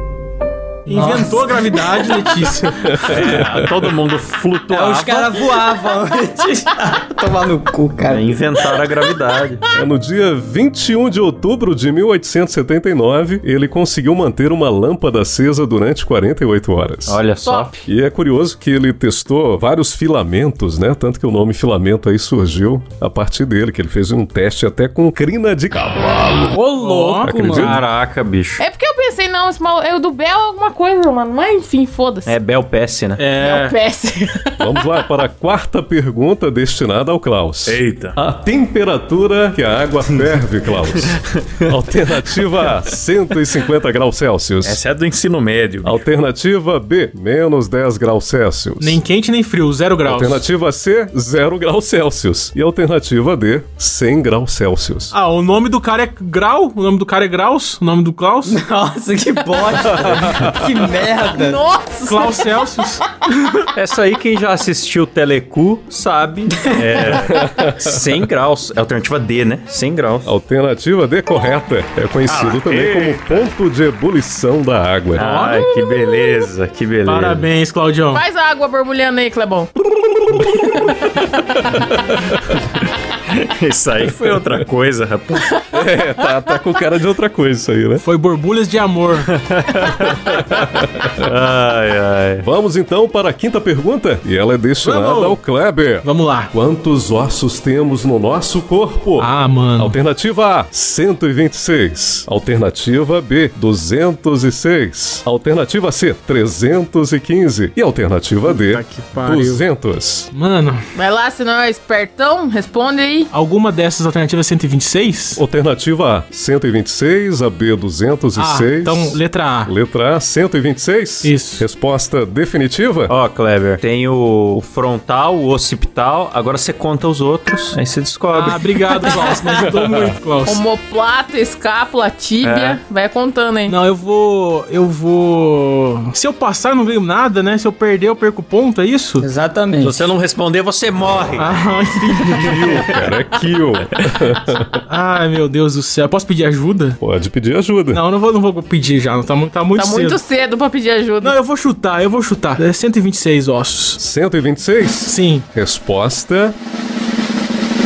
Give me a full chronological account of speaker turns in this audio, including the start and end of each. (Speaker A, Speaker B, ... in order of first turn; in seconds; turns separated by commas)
Speaker A: 0.9-3.0, Speaker B: 0.9-1.4, Speaker C: 2.9-3.9, Speaker D: 3.0-5.5, Speaker B: 4.7-8.3, Speaker D: 8.1-9.6, Speaker C: 9.7-17.2, Speaker D: 17.1-17.7, Speaker E: 17.4-17.8, Speaker C: 17.9-26.6, Speaker B: 26.5-27.8, Speaker A: 26.8-27.3, Speaker C: 27.2-27.8, Speaker D: 27.4-28.6, Speaker E: 28.6-32.3, Speaker D: 32.3-33.2, Speaker A: 33.2-33.8, Speaker E: 33.4-34.8, Speaker C: 34.6-44.8, Speaker D: 37.7-38.2, Speaker D: 41.1-41.7, Speaker D: 44.6-46.0, Speaker C: 45.8-49.0, Speaker A: 48.8-50.4, Speaker C: 50.0-55.1, Speaker A: 55.1-58.6, Speaker B: 58.5-61.6, Speaker C: 59.8-60.8, Speaker E: 61.3-62.7, Speaker A: 62.1-63.0, Speaker D: 63.8-70.3, Speaker C: 67.3-68.1, Speaker C: 70.2-75.4, Speaker D: 72.3-73.5, Speaker D: 75.2-77.5, Speaker A: 75.2-75.6, Speaker E: 75.7-76.5, Speaker A: 77.1-78.2, Speaker E: 78.1-79.7, Speaker E: 80.4-81.2, Speaker C: 81.7-82.6, Speaker D: 83.3-85.5, Speaker C: 84.0-84.6, Speaker C: 85.7-88.0, Speaker A: 88.0-89.3, Speaker D: 89.3-90.5, Speaker C: 90.3-91.3, Speaker D: 91.2-92.5, Speaker C: 92.4-110.3, Speaker A: 94.8-95.4, Speaker A: 96.0-96.5, Speaker A: 99.2-100.0, Speaker A: 108.5-109.6, Speaker A: 110.3-110.8, Speaker E: 111.0-113.3, Speaker A: 113.3-115.4, Speaker C: 115.3-123.1, Speaker A: 118.4-119.7, Speaker A: 121.2-121.7, Speaker D: 123.1-128.7, Speaker A: 128.3-130.6, Speaker C: 129.8-130.0, Speaker E: 130.5-133.8, Speaker D: 132.4-132.8, Speaker A: 133.7-139.2, Speaker B: 139.2-140.0, Speaker D: 139.8-141.5, Speaker A: 141.4-142.9, Speaker D: 142.3-142.8, Speaker C: 142.4-144.8, Speaker A: 144.9-147.0, Speaker C: 147.0-148.0, Speaker A: 147.9-150.2, Speaker E: 149.8-151.4, Speaker A: 151.2-154.0, Speaker C: 154.0-156.6, Speaker A: 155.1-155.5